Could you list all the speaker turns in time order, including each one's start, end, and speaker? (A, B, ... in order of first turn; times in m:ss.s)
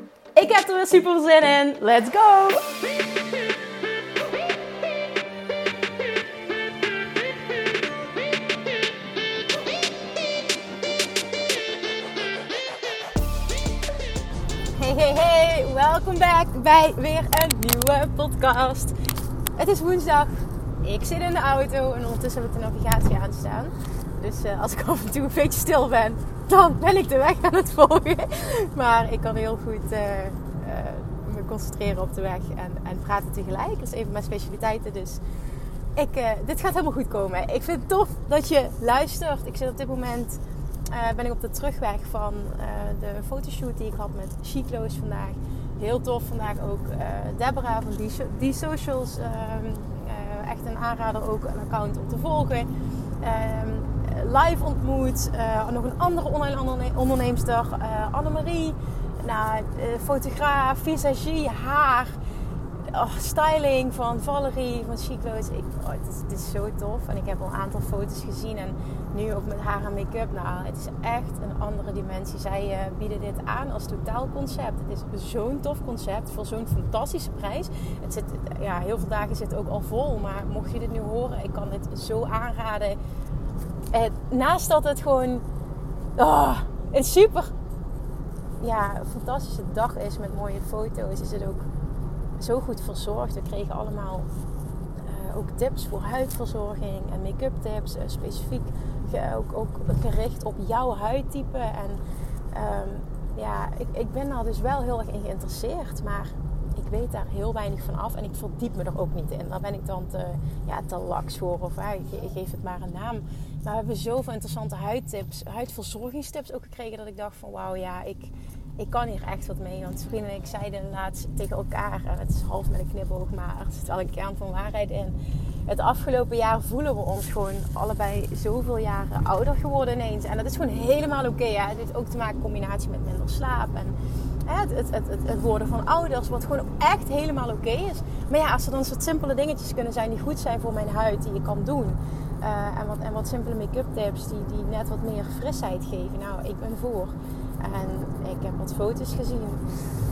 0:00.4-0:02.7 A
0:14.8-0:19.0 A
0:19.6-0:20.3 A
0:20.8-0:35.2 A
0:36.0-0:40.4 A
0:40.9-0:52.7 A
0:53.2-1:02.2 A
1:02.9-1:23.0 A
1:23.9-1:25.4 A
1:26.2-1:27.5 A
1:28.6-1:31.6 A
1:32.4-1:34.3 A
1:35.0-1:42.0 A
1:42.5-2:05.2 A
2:05.7-2:14.0 A
2:14.5-2:29.6 A